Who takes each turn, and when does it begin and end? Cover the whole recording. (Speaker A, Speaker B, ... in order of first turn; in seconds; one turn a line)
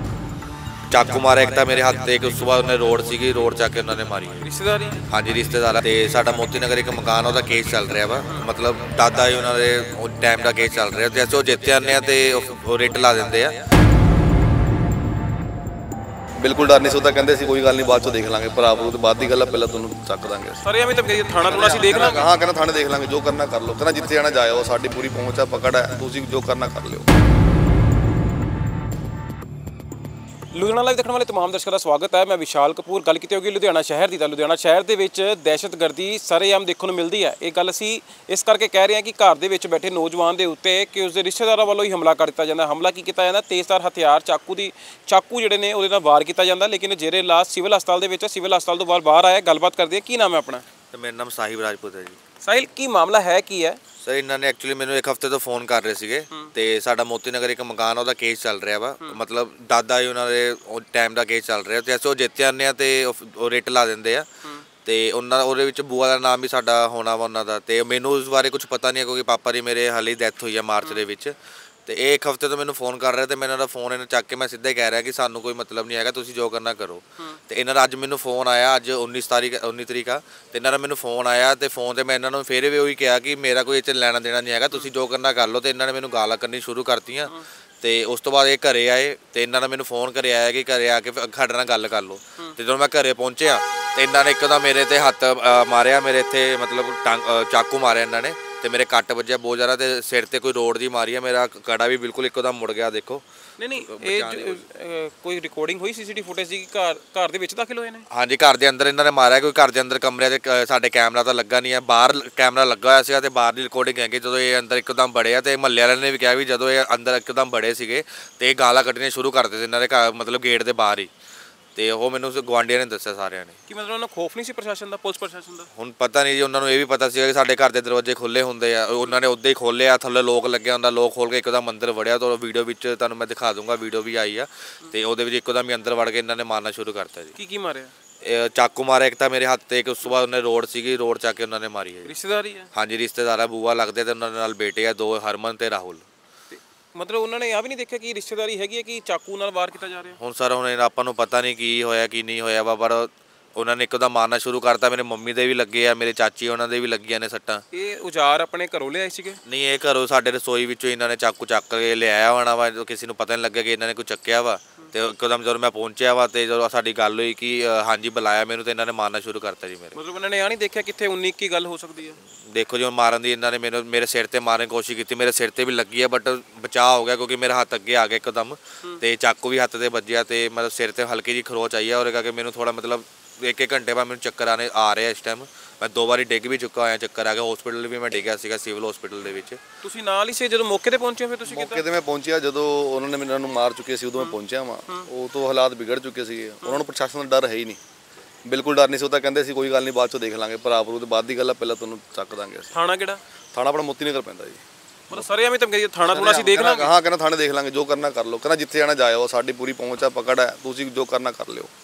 Speaker A: 0.9-4.4
Speaker B: 4.4-5.0
Speaker A: 5.1-13.6
Speaker C: 16.4-20.6
Speaker B: 20.6-22.3
Speaker C: 21.5-27.1
Speaker B: 30.5-50.6
Speaker A: 50.9-52.2
Speaker B: 52.4-53.8
Speaker A: 54.0-64.3
Speaker A: 64.8-103.2
Speaker B: 103.6-108.0
Speaker A: 103.8-104.6
Speaker A: 108.1-121.1
Speaker A: 121.8-123.6
Speaker B: 123.7-125.7
Speaker A: 125.8-137.3
Speaker B: 137.3-137.9
Speaker A: 138.2-142.1
Speaker B: 142.0-142.7
Speaker A: 142.7-146.0
Speaker B: 146.5-150.2
Speaker A: 150.2-157.6
Speaker B: 157.7-159.4
Speaker A: 159.4-169.9
Speaker B: 169.9-172.2
Speaker A: 172.5-189.6
Speaker B: 189.8-191.8
Speaker C: 191.5-197.8
Speaker C: 198.4-202.7
Speaker B: 202.7-203.2
Speaker C: 203.5-205.3
Speaker B: 205.1-206.9
Speaker C: 206.1-211.7